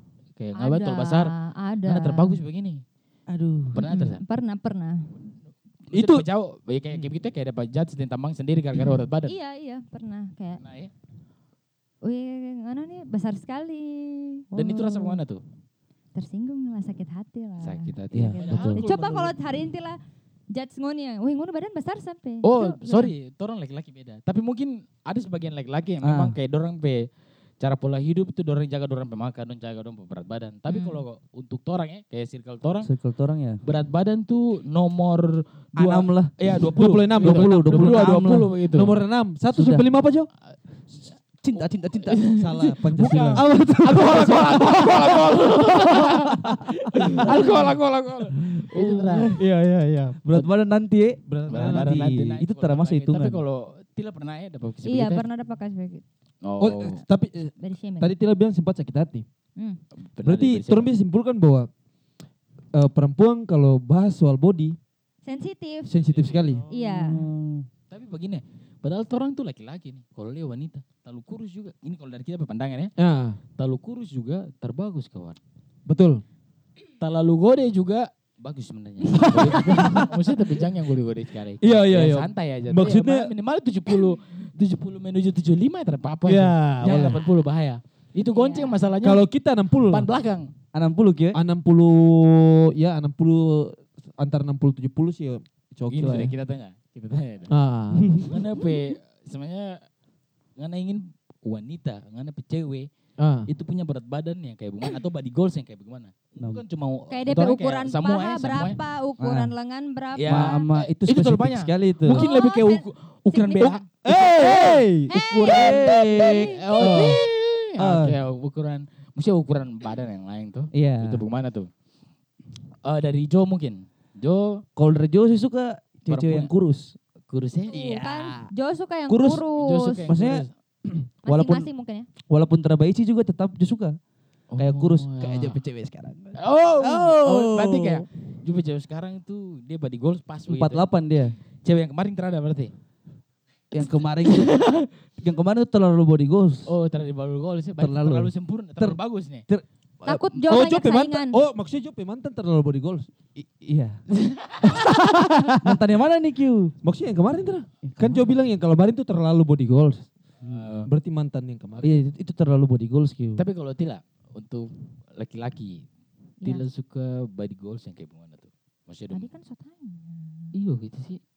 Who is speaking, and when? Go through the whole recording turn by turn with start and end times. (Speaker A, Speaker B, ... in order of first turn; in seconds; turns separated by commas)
Speaker A: 0.3-1.3, Speaker B: 0.6-2.4, Speaker A: 1.9-2.8, Speaker C: 3.3-3.8, Speaker A: 3.7-4.2, Speaker B: 3.8-5.1, Speaker A: 5.9-9.3, Speaker D: 5.9-6.2, Speaker B: 9.2-10.6, Speaker A: 10.6-10.9, Speaker B: 12.0-15.2, Speaker C: 14.5-14.8, Speaker A: 14.5-15.4, Speaker B: 16.1-20.0, Speaker A: 17.6-19.3, Speaker C: 18.1-18.8, Speaker B: 20.5-23.1, Speaker A: 22.4-27.1, Speaker C: 26.0-26.4, Speaker A: 27.6-32.9, Speaker B: 30.7-31.0, Speaker C: 32.8-33.6, Speaker A: 33.6-39.0, Speaker C: 35.8-38.5, Speaker D: 36.8-40.3, Speaker C: 39.5-39.8, Speaker C: 41.4-42.4, Speaker A: 41.5-46.4, Speaker D: 42.4-45.2, Speaker C: 42.9-45.0, Speaker C: 46.5-47.4, Speaker A: 47.0-49.4, Speaker D: 47.0-47.5, Speaker C: 48.6-49.5, Speaker D: 49.3-50.5, Speaker C: 50.2-53.4, Speaker D: 51.3-52.0, Speaker A: 51.5-55.2, Speaker B: 54.8-56.0, Speaker A: 56.4-57.0, Speaker D: 56.6-59.2, Speaker B: 57.6-58.1, Speaker A: 60.0-60.9, Speaker D: 60.2-61.7, Speaker D: 62.7-64.8, Speaker B: 65.2-65.9, Speaker D: 65.8-66.6, Speaker A: 66.0-66.7, Speaker B: 66.7-67.2, Speaker C: 66.7-67.7, Speaker A: 67.9-72.9, Speaker D: 73.0-73.4, Speaker A: 73.6-75.4, Speaker D: 75.8-76.2, Speaker A: 77.0-89.3, Speaker D: 79.1-80.1, Speaker D: 81.6-83.3, Speaker D: 86.2-87.2, Speaker B: 88.3-88.8, Speaker D: 89.0-90.1, Speaker A: 89.9-90.5, Speaker C: 90.7-91.4, Speaker D: 91.3-96.3, Speaker A: 95.9-97.5, Speaker D: 97.5-98.3, Speaker C: 97.9-98.3, Speaker A: 98.2-99.8, Speaker A: 100.6-102.9, Speaker D: 103.2-103.5, Speaker A: 103.5-108.8, Speaker B: 107.1-110.7, Speaker C: 109.2-109.5, Speaker A: 110.1-121.7, Speaker C: 110.2-112.2, Speaker B: 112.1-113.8, Speaker D: 113.6-115.1, Speaker B: 114.3-117.2, Speaker C: 115.2-116.6, Speaker D: 116.8-117.2, Speaker D: 117.8-118.2, Speaker C: 120.7-121.2, Speaker A: 122.8-124.6, Speaker C: 124.8-127.0, Speaker A: 126.1-126.5, Speaker A: 127.3-127.8, Speaker B: 127.7-130.1, Speaker C: 127.7-128.5, Speaker C: 129.1-129.4, Speaker A: 129.5-130.5, Speaker C: 130.1-131.7, Speaker B: 131.2-132.1, Speaker C: 132.3-134.0, Speaker A: 134.5-135.6, Speaker C: 134.6-138.0, Speaker A: 136.4-140.8, Speaker C: 140.5-141.3, Speaker A: 141.6-142.7, Speaker C: 143.7-144.7, Speaker A: 143.9-144.8, Speaker C: 145.2-146.7, Speaker A: 146.7-149.4, Speaker C: 147.8-150.2, Speaker B: 150.0-151.4, Speaker D: 150.3-153.1, Speaker C: 153.4-154.0, Speaker A: 154.2-154.8, Speaker C: 154.6-156.7, Speaker D: 154.7-155.8, Speaker D: 156.8-160.1, Speaker C: 157.8-158.3, Speaker A: 160.4-160.9, Speaker D: 160.8-162.0, Speaker C: 161.8-163.4, Speaker A: 163.4-165.8, Speaker A: 166.4-169.3, Speaker B: 169.1-170.5, Speaker A: 170.5-171.2